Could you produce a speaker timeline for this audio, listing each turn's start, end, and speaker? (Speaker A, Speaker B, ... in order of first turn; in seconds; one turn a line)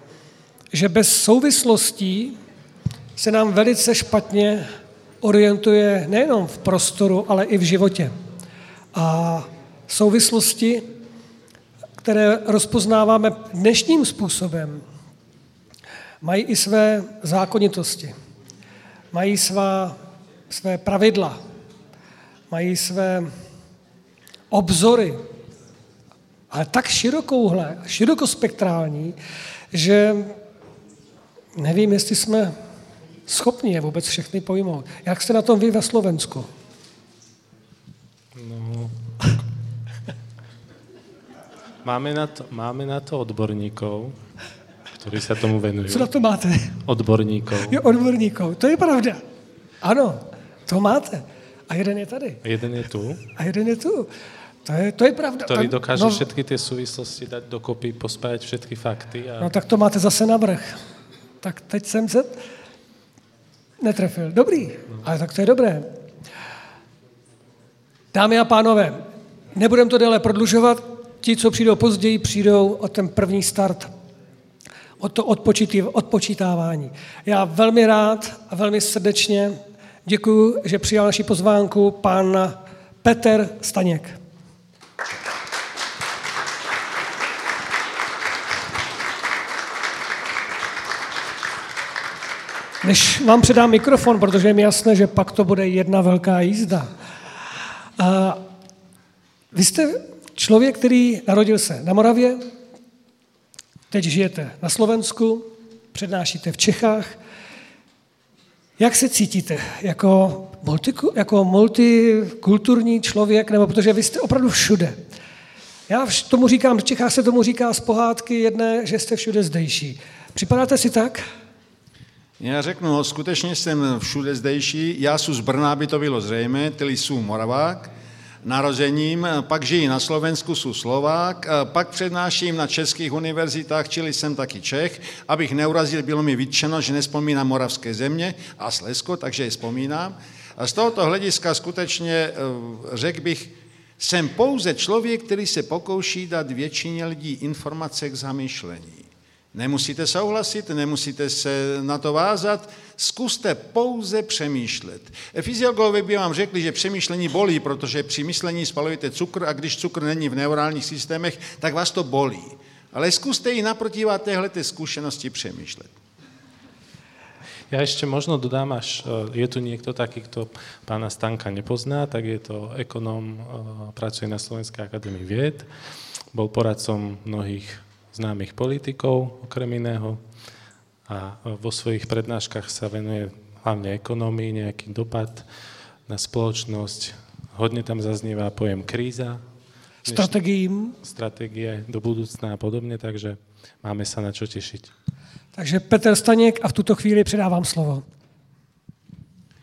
Speaker A: 0.7-2.4
Speaker A: 3.2-4.7
Speaker A: 5.2-8.1
Speaker A: 8.9-10.8
Speaker A: 12.0-14.8
Speaker A: 16.2-18.1
Speaker A: 19.1-19.9
Speaker A: 20.5-21.4
Speaker A: 22.5-23.3
Speaker A: 24.5-25.2
Speaker A: 26.5-29.2
Speaker A: 29.7-30.4
Speaker A: 31.6-32.5
Speaker A: 33.3-36.5
Speaker B: 38.4-38.9
Speaker B: 41.8-44.2
Speaker B: 45.0-46.1
Speaker A: 45.9-46.8
Speaker B: 46.9-47.8
Speaker A: 47.7-49.2
Speaker A: 49.8-52.4
Speaker B: 52.4-53.2
Speaker A: 53.3-54.1
Speaker A: 54.7-56.2
Speaker B: 55.5-59.5
Speaker A: 59.4-60.8
Speaker A: 61.4-62.4
Speaker A: 63.8-65.9
Speaker A: 68.1-73.9
Speaker A: 75.0-84.2
Speaker A: 92.8-96.9
Speaker A: 98.0-98.4
Speaker A: 99.5-102.5
Speaker A: 103.9-107.2
Speaker A: 108.8-115.0
Speaker A: 115.9-121.2
Speaker C: 122.4-127.9
Speaker C: 128.4-165.9
Speaker B: 167.7-175.7
Speaker B: 176.3-180.2
Speaker B: 181.1-185.5
Speaker B: 186.1-189.4
Speaker B: 190.1-190.3
Speaker A: 190.1-191.0
Speaker B: 191.0-194.9
Speaker A: 195.6-198.0